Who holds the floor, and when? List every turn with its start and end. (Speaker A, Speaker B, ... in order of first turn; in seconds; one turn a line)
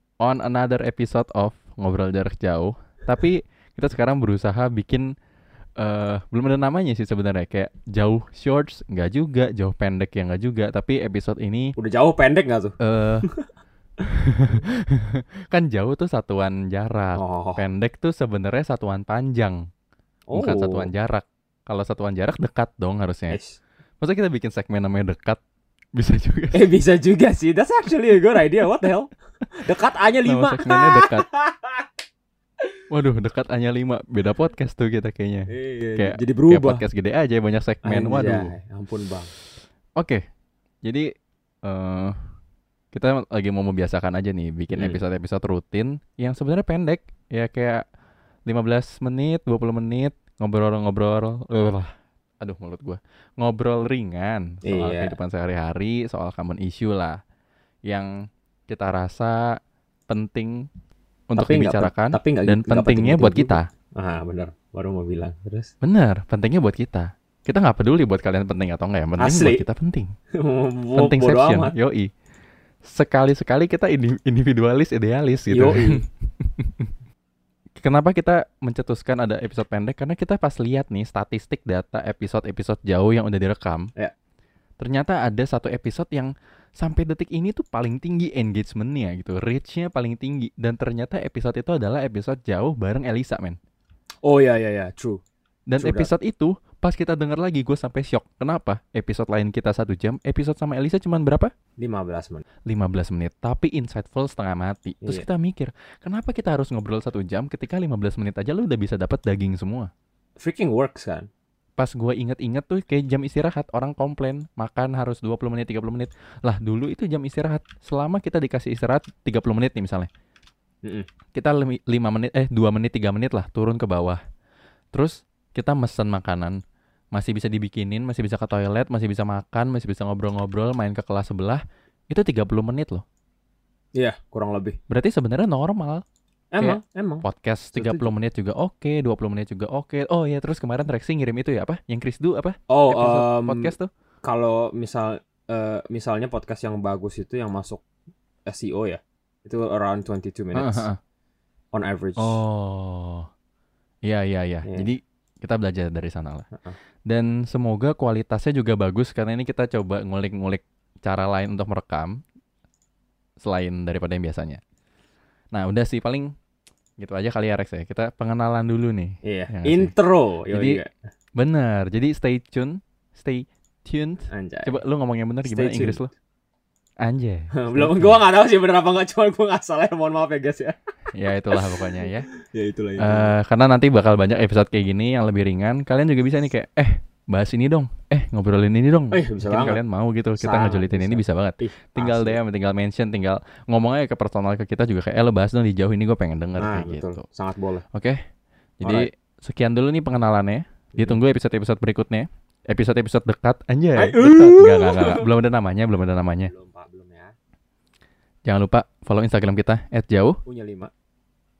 Speaker A: 0.2-5.1
Speaker A: 5.8-11.7
Speaker B: 11.8-13.4
Speaker A: 12.8-13.3
Speaker A: 14.0-19.6
Speaker B: 17.1-17.6
Speaker B: 20.3-20.9
Speaker A: 20.3-23.4
Speaker B: 23.3-23.6
Speaker A: 24.0-25.4
Speaker A: 25.9-26.6
Speaker B: 26.5-29.1
Speaker B: 29.6-31.8
Speaker A: 30.2-31.2
Speaker A: 32.9-38.5
Speaker B: 35.5-36.9
Speaker B: 37.8-39.3
Speaker A: 41.6-42.1
Speaker A: 42.9-47.8
Speaker B: 44.7-45.0
Speaker A: 48.5-57.2
Speaker B: 54.6-55.2
Speaker A: 58.7-59.4
Speaker A: 60.1-60.6
Speaker A: 61.3-63.7
Speaker B: 61.4-65.7
Speaker A: 65.8-70.1
Speaker B: 69.2-69.6
Speaker B: 70.3-71.7
Speaker A: 71.0-72.1
Speaker A: 72.8-76.9
Speaker B: 75.5-76.0
Speaker A: 77.8-83.9
Speaker A: 84.8-93.6
Speaker B: 94.2-95.2
Speaker A: 95.7-101.5
Speaker B: 95.8-96.1
Speaker B: 101.8-102.4
Speaker A: 102.7-109.9
Speaker B: 110.4-111.3
Speaker A: 111.8-120.1
Speaker A: 121.3-124.2
Speaker A: 124.9-126.6
Speaker A: 127.1-133.0
Speaker B: 133.9-134.8
Speaker A: 134.9-136.0
Speaker B: 136.5-138.1
Speaker A: 136.6-143.9
Speaker B: 142.7-143.7
Speaker B: 144.2-147.8
Speaker B: 148.4-150.9
Speaker A: 150.5-151.0
Speaker B: 151.7-152.4
Speaker A: 152.2-153.3
Speaker A: 154.0-156.5
Speaker B: 154.6-154.9
Speaker A: 157.1-162.2
Speaker A: 163.4-164.6
Speaker A: 165.5-166.3
Speaker A: 167.0-169.9
Speaker B: 169.2-170.9
Speaker A: 170.5-170.8
Speaker A: 171.4-176.1
Speaker B: 174.3-174.8
Speaker B: 175.4-176.0
Speaker A: 177.0-178.2
Speaker B: 177.6-180.8
Speaker A: 181.1-182.3
Speaker B: 181.6-183.3
Speaker A: 183.0-197.2
Speaker B: 189.1-189.8
Speaker B: 190.4-192.4
Speaker B: 196.6-197.8
Speaker A: 197.9-198.2
Speaker A: 198.8-206.5
Speaker B: 198.8-199.1
Speaker B: 204.0-205.2
Speaker B: 206.4-207.3
Speaker A: 208.5-210.4
Speaker B: 210.4-210.9